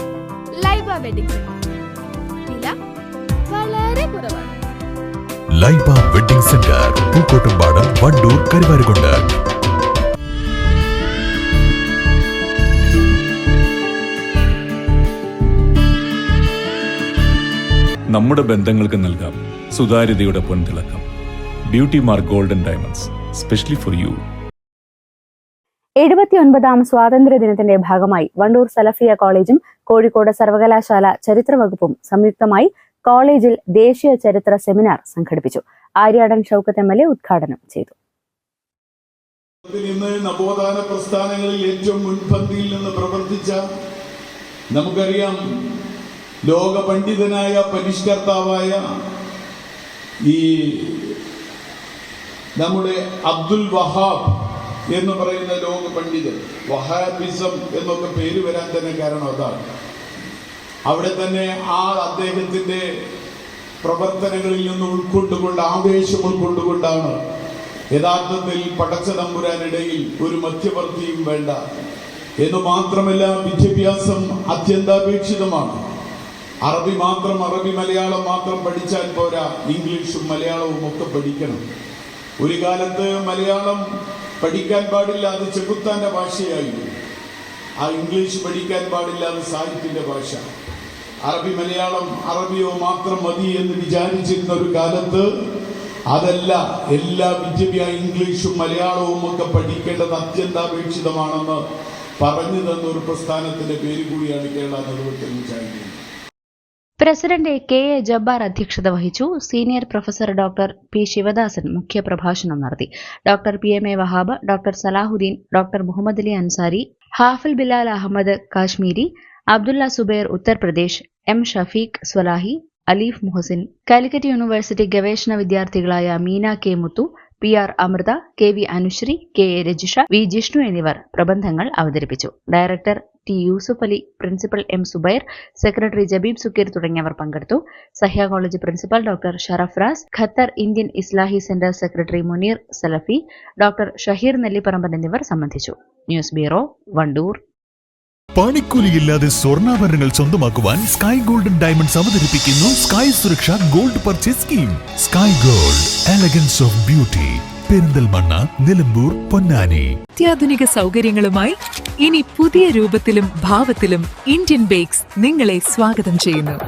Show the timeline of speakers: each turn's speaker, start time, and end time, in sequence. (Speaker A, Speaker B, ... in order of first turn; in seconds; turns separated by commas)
Speaker A: 0.6-1.6, Speaker A: 2.5-2.7, Speaker A: 3.5-4.5, Speaker B: 5.6-9.3, Speaker C: 18.1-21.0, Speaker C: 21.7-24.2, Speaker D: 26.0-37.9, Speaker E: 39.7-43.6, Speaker E: 44.7-45.4, Speaker E: 46.5-48.8, Speaker E: 50.2-51.1, Speaker E: 52.6-54.3, Speaker E: 54.9-59.6, Speaker E: 60.9-62.9, Speaker E: 63.8-67.2, Speaker E: 67.9-71.6, Speaker E: 72.4-75.8, Speaker E: 76.6-81.6, Speaker E: 82.4-83.8, Speaker E: 84.4-86.9, Speaker E: 87.8-90.4, Speaker E: 91.2-95.3, Speaker E: 96.1-101.6, Speaker E: 102.2-106.0, Speaker D: 107.0-147.4, Speaker B: 148.4-159.9, Speaker F: 160.2-166.6